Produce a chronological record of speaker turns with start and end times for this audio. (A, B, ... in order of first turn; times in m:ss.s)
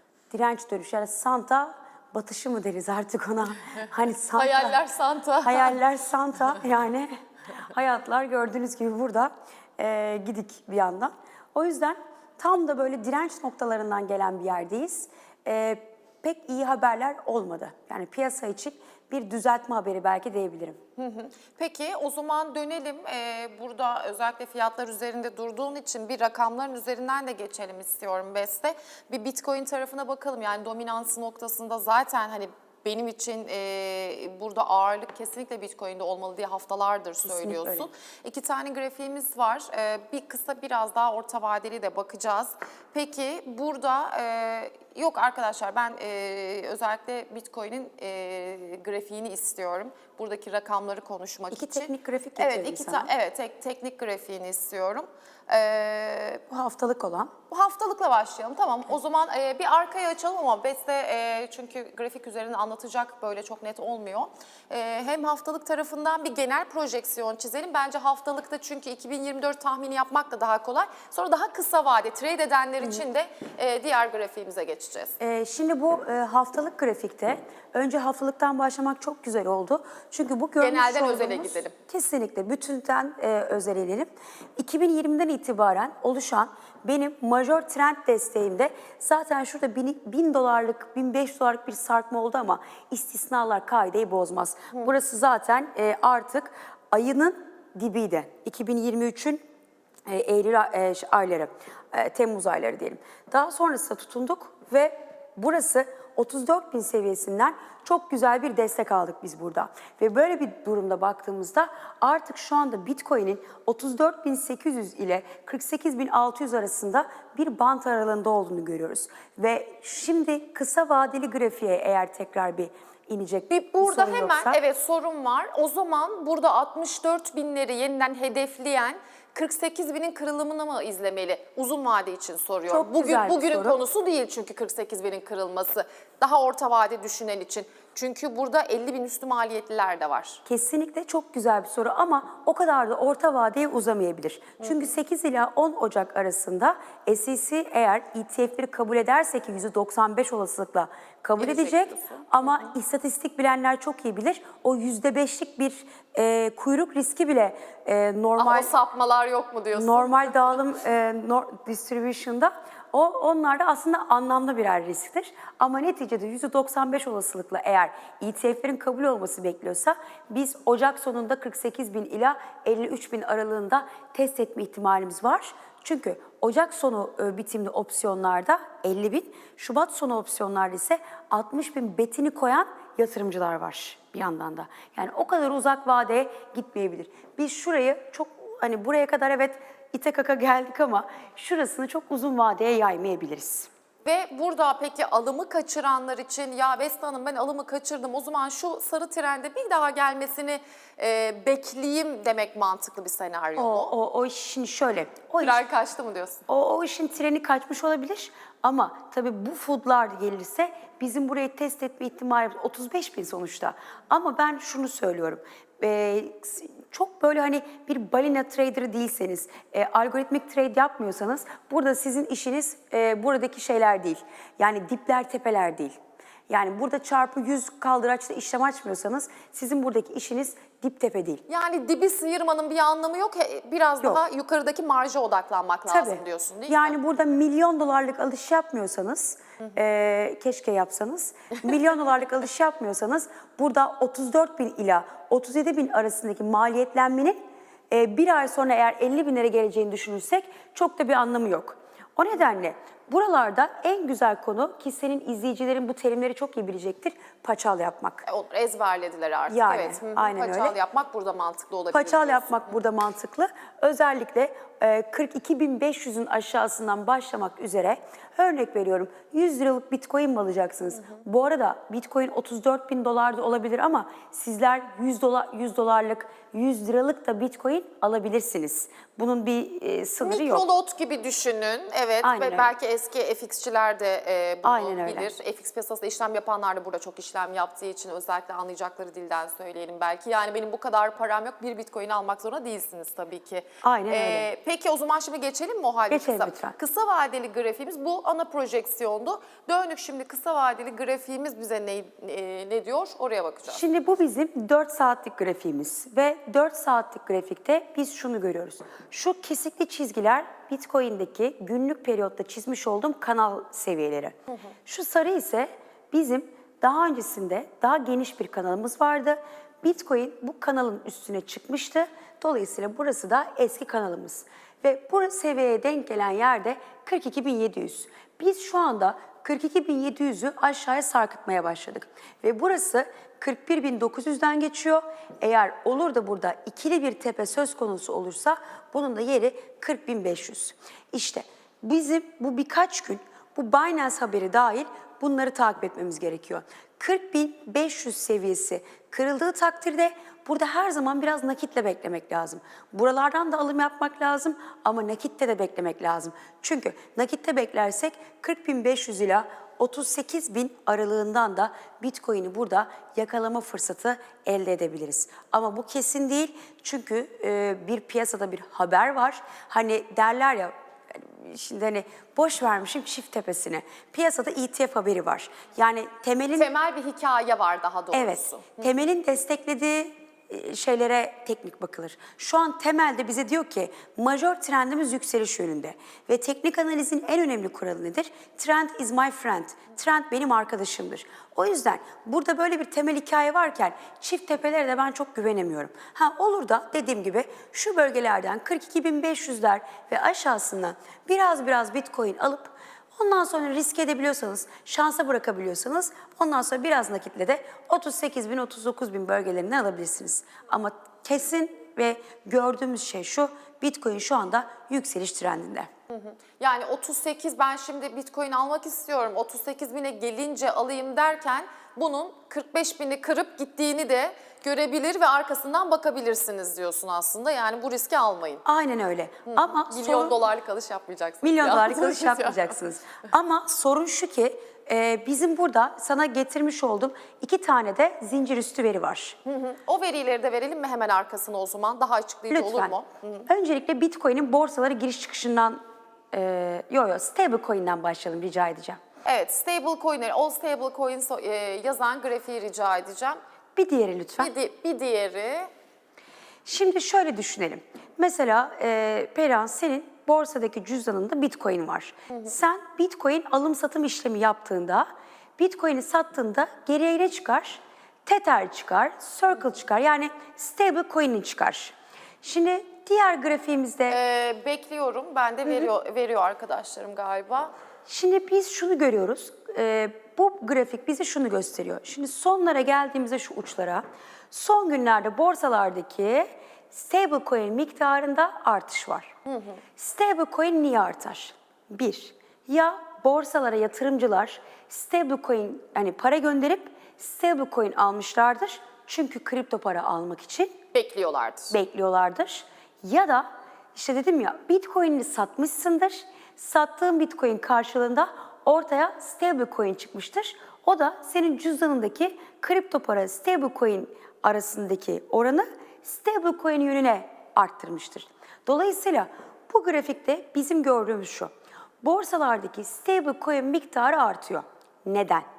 0:00.3-0:04.8 A
0:04.3-0:05.8 B
0:05.4-0:20.8 A
0:21.0-0:56.4 B
0:37.2-0:37.9 A
0:51.5-0:53.1 A
0:56.5-0:57.3 A
0:57.5-1:15.2 B
1:15.2-1:39.4 A
1:20.6-1:21.7 B
1:40.1-2:04.6 A
2:03.5-2:20.4 B
2:12.7-2:13.8 A
2:20.5-2:38.7 A
2:31.4-2:32.3 B
2:38.4-2:40.5 B
2:39.7-3:13.7 A
3:14.0-3:23.9 B
3:23.6-3:25.6 A
3:25.4-3:26.4 B
3:26.5-3:46.0 A
3:46.5-3:51.4 A
3:51.5-3:57.0 B
3:55.9-4:18.2 A
4:18.3-4:22.7 B
4:19.5-4:20.8 A
4:21.9-4:40.7 A
4:40.2-5:03.8 B
4:42.2-4:42.7 A
4:44.6-4:45.3 A
4:53.8-4:54.5 A
4:56.1-4:56.8 A
5:03.7-6:16.7 A
6:16.6-6:18.9 B
6:18.1-6:55.9 A
6:56.1-7:08.6 B
7:08.6-7:10.4 A
7:09.5-7:12.7 B
7:11.4-7:19.4 A
7:19.5-7:23.5 B
7:22.5-7:23.0 A
7:23.5-7:25.8 A
7:26.3-7:29.0 A
7:29.3-7:33.4 B
7:33.8-7:34.5 A
7:34.4-7:35.7 B
7:36.6-7:54.2 A
7:54.1-7:57.7 B
7:58.1-8:09.4 A
8:09.5-8:09.8 B
8:10.0-8:20.8 A
8:20.9-8:21.7 B
8:21.7-8:45.5 A